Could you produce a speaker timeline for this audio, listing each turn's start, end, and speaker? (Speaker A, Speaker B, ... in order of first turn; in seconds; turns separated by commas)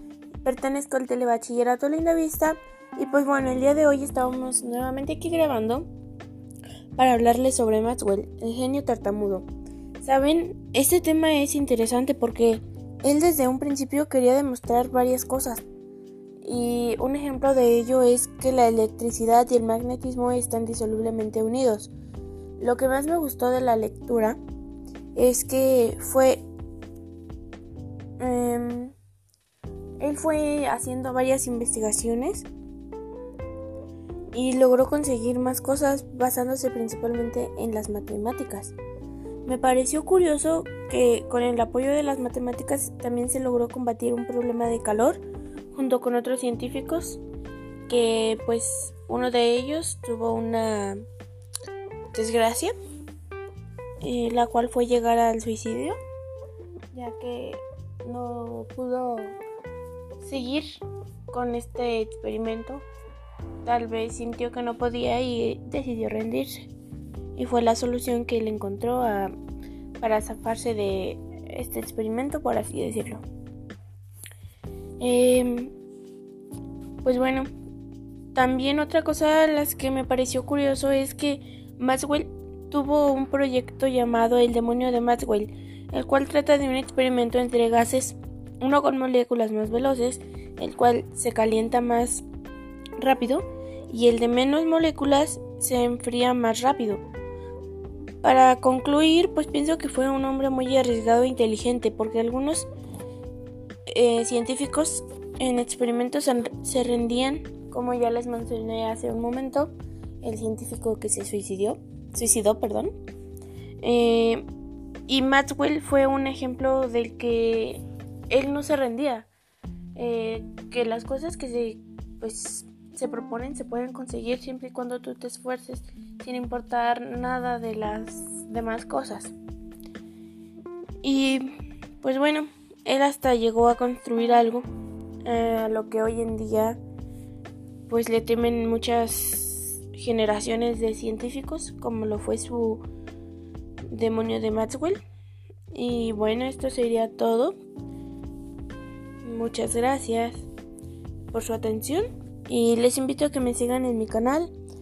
Speaker A: 0.4-5.9, Speaker A: 7.0-9.5, Speaker A: 10.0-15.6, Speaker A: 16.4-21.9, Speaker A: 22.6-24.4, Speaker A: 25.1-26.4, Speaker A: 28.2-28.9, Speaker A: 30.0-32.5, Speaker A: 34.3-38.8, Speaker A: 39.5-45.2, Speaker A: 45.7-47.2, Speaker A: 47.9-51.0, Speaker A: 52.1-52.7, Speaker A: 54.0-56.0, Speaker A: 56.9-59.4, Speaker A: 60.2-60.8, Speaker A: 61.3-62.9, Speaker A: 63.6-66.7, Speaker A: 67.4-69.3, Speaker A: 70.0-73.2, Speaker A: 75.0-75.7, Speaker A: 77.0-77.5, Speaker A: 78.3-92.2, Speaker A: 93.0-97.0, Speaker A: 98.2-102.7, Speaker A: 103.9-112.9, Speaker A: 113.8-114.5, Speaker A: 115.1-119.3, Speaker A: 120.0-129.3, Speaker A: 131.0-134.7, Speaker A: 135.2-136.8, Speaker A: 137.9-142.8, Speaker A: 143.9-145.0, Speaker A: 145.7-147.6, Speaker A: 149.2-150.4, Speaker A: 151.3-154.5